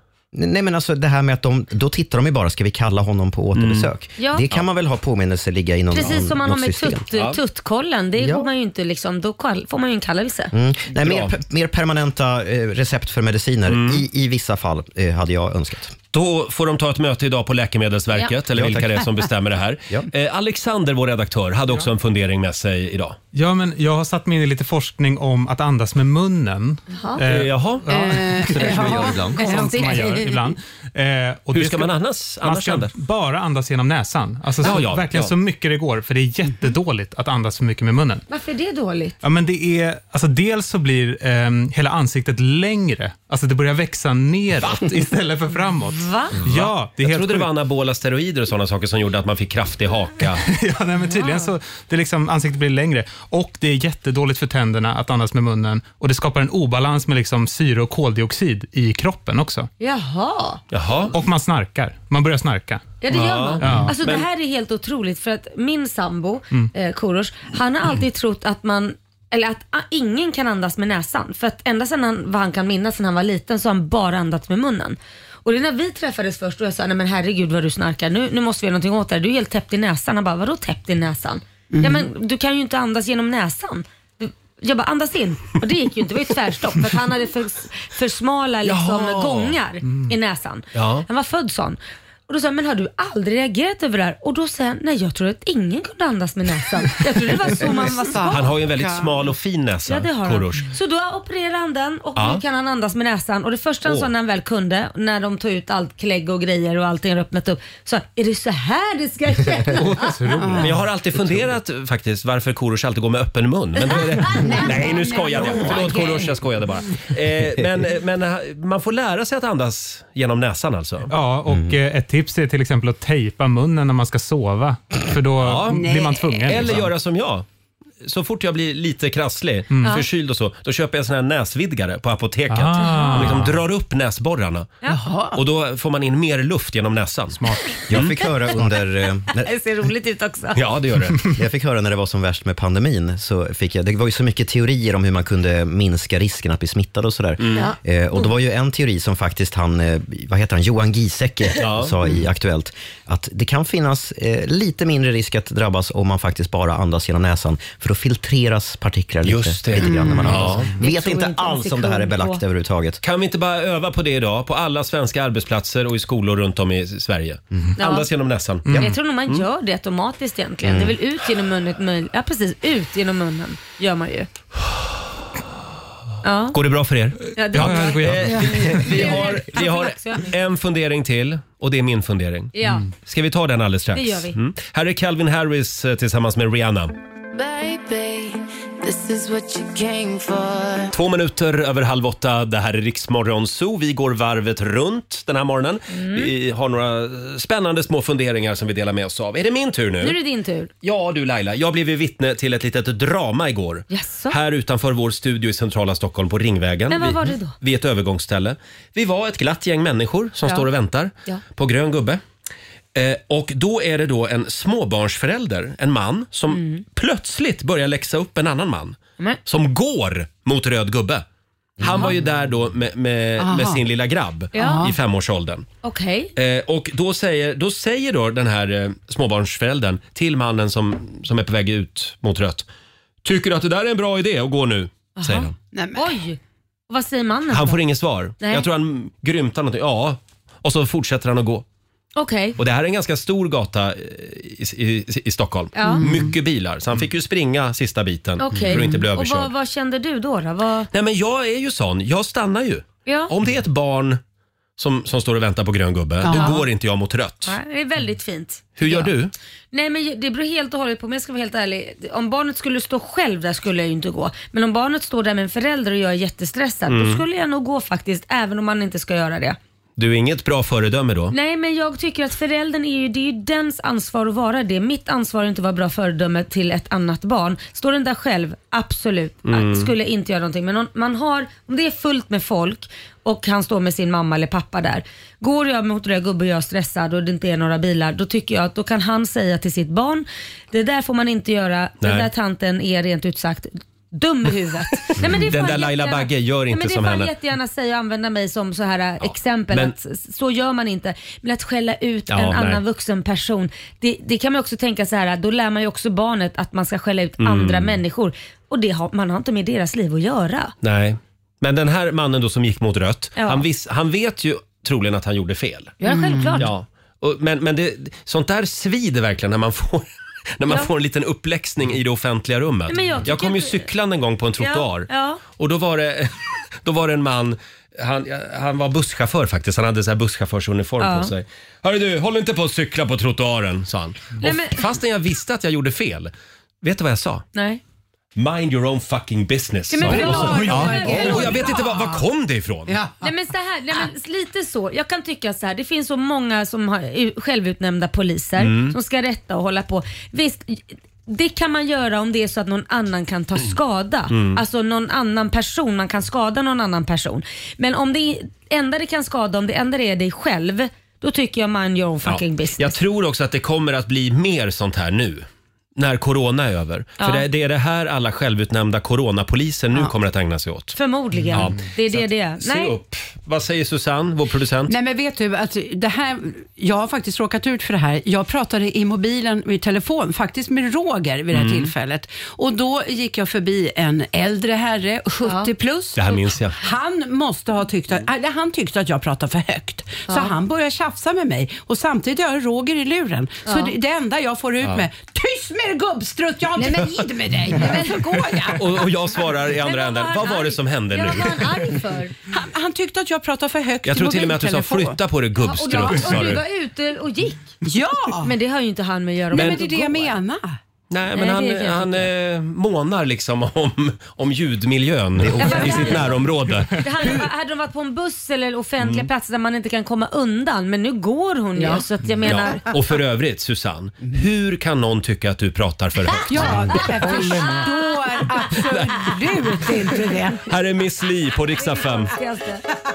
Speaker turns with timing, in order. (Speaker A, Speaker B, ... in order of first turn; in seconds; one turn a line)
Speaker A: 0.3-7.0
Speaker B: 3.5-3.9
Speaker C: 4.2-4.4
Speaker C: 5.9-10.5
Speaker B: 7.1-7.4
Speaker A: 8.2-8.5
Speaker A: 10.5-15.9
Speaker B: 10.9-11.3
Speaker B: 13.7-14.0
Speaker B: 16.1-23.2
Speaker A: 18.5-19.1
Speaker D: 23.3-38.2
Speaker C: 26.9-27.2
Speaker B: 27.3-27.8
Speaker E: 27.9-30.3
Speaker A: 28.6-29.5
Speaker C: 29.4-30.2
Speaker B: 31.5-32.9
Speaker B: 34.6-35.3
Speaker C: 38.3-39.1
Speaker D: 39.2-47.5
Speaker C: 45.9-46.4
Speaker B: 46.4-50.4
Speaker D: 50.4-59.7
Speaker C: 51.1-51.5
Speaker C: 59.8-60.6
Speaker B: 60.7-61.1
Speaker D: 61.1-62.9
Speaker C: 63.0-98.5
Speaker B: 63.1-64.2
Speaker D: 63.6-64.0
Speaker E: 81.7-82.1
Speaker B: 88.6-89.5
Speaker B: 90.7-91.0
Speaker E: 97.8-99.2
Speaker B: 98.3-100.7
Speaker C: 99.8-110.2
Speaker B: 102.2-102.4
Speaker D: 109.7-110.8
Speaker E: 110.4-110.7
Speaker B: 110.6-121.1
Speaker E: 114.3-116.4
Speaker D: 121.1-126.9
Speaker A: 121.5-121.8
Speaker B: 125.4-125.8
Speaker E: 125.7-126.8
Speaker B: 126.5-127.5
Speaker B: 128.0-134.8
Speaker D: 129.7-130.0
Speaker D: 132.5-133.6
Speaker C: 132.8-133.3
Speaker E: 134.9-135.4
Speaker B: 135.3-138.1
Speaker D: 137.4-137.8
Speaker A: 137.9-139.5
Speaker C: 139.3-140.6
Speaker B: 140.5-141.2
Speaker A: 141.3-163.0
Speaker B: 147.4-147.7
Speaker C: 147.5-148.3
Speaker B: 151.6-151.9
Speaker B: 159.2-160.7
Speaker E: 159.8-160.3
Speaker C: 160.8-162.4
Speaker B: 163.0-169.4
Speaker C: 167.8-168.1
Speaker D: 168.7-168.9
Speaker C: 168.7-174.3
Speaker A: 170.6-171.0
Speaker C: 176.2-176.6
Speaker B: 176.5-186.9
Speaker C: 177.3-180.3
Speaker D: 177.5-178.8
Speaker C: 182.5-182.9
Speaker C: 183.9-184.3
Speaker F: 187.3-190.9
Speaker B: 190.9-200.2
Speaker C: 195.9-196.3
Speaker C: 200.0-200.7
Speaker B: 200.8-212.2
Speaker C: 203.9-204.4
Speaker C: 206.9-207.5
Speaker B: 212.9-221.2
Speaker C: 216.5-216.8
Speaker B: 221.8-225.7
Speaker E: 223.4-223.8
Speaker C: 224.5-224.8
Speaker E: 224.5-224.9
Speaker C: 225.8-226.3
Speaker B: 226.3-232.7
Speaker B: 233.2-235.5
Speaker C: 235.2-237.8
Speaker E: 235.7-236.2
Speaker B: 237.5-241.6
Speaker C: 238.4-238.7
Speaker C: 242.2-242.6
Speaker B: 242.6-249.5
Speaker C: 245.7-246.0
Speaker E: 245.8-246.3
Speaker C: 248.4-250.9
Speaker E: 248.6-248.9
Speaker B: 250.9-254.2
Speaker C: 253.1-253.3
Speaker B: 254.8-257.5
Speaker E: 256.2-256.6
Speaker C: 256.3-256.6
Speaker C: 257.4-259.1
Speaker B: 258.8-259.3
Speaker C: 259.7-269.6
Speaker B: 266.9-267.2
Speaker B: 270.0-271.3
Speaker C: 271.3-310.7
Speaker B: 279.5-279.9
Speaker B: 292.0-292.3
Speaker B: 295.1-297.3
Speaker B: 299.2-299.9
Speaker B: 302.3-302.8
Speaker B: 307.4-308.0
Speaker B: 310.8-315.9
Speaker C: 313.4-313.6
Speaker C: 316.0-316.7
Speaker E: 316.0-316.7
Speaker B: 316.6-320.1
Speaker B: 320.6-326.3
Speaker C: 322.9-323.9
Speaker C: 324.6-325.4
Speaker B: 326.8-337.4
Speaker C: 331.0-331.3
Speaker C: 334.4-334.8
Speaker C: 337.5-337.8
Speaker B: 338.4-342.9
Speaker C: 339.9-341.7
Speaker E: 340.0-342.2
Speaker E: 342.9-343.2
Speaker C: 343.2-363.0
Speaker B: 348.6-348.9
Speaker B: 354.3-354.6
Speaker B: 362.2-371.0
Speaker C: 367.2-367.4
Speaker C: 370.9-372.9
Speaker B: 371.5-374.9
Speaker E: 374.9-399.0
Speaker B: 381.5-381.9
Speaker C: 385.4-385.7
Speaker B: 386.1-386.8
Speaker C: 390.3-390.5
Speaker C: 393.6-393.9
Speaker C: 396.8-397.2
Speaker C: 397.7-398.3
Speaker B: 398.8-401.8
Speaker C: 399.8-402.3
Speaker E: 402.5-405.2
Speaker B: 404.0-406.6
Speaker C: 405.6-407.8
Speaker E: 407.8-408.5
Speaker C: 408.4-410.3
Speaker E: 409.5-410.8
Speaker B: 409.5-409.8
Speaker B: 411.1-417.5
Speaker C: 411.3-412.3
Speaker A: 415.4-416.4
Speaker C: 415.6-422.8
Speaker B: 419.0-419.3
Speaker E: 421.8-422.0
Speaker B: 422.4-427.4
Speaker E: 426.5-430.7
Speaker C: 427.6-427.9
Speaker B: 430.7-432.3
Speaker C: 431.8-432.8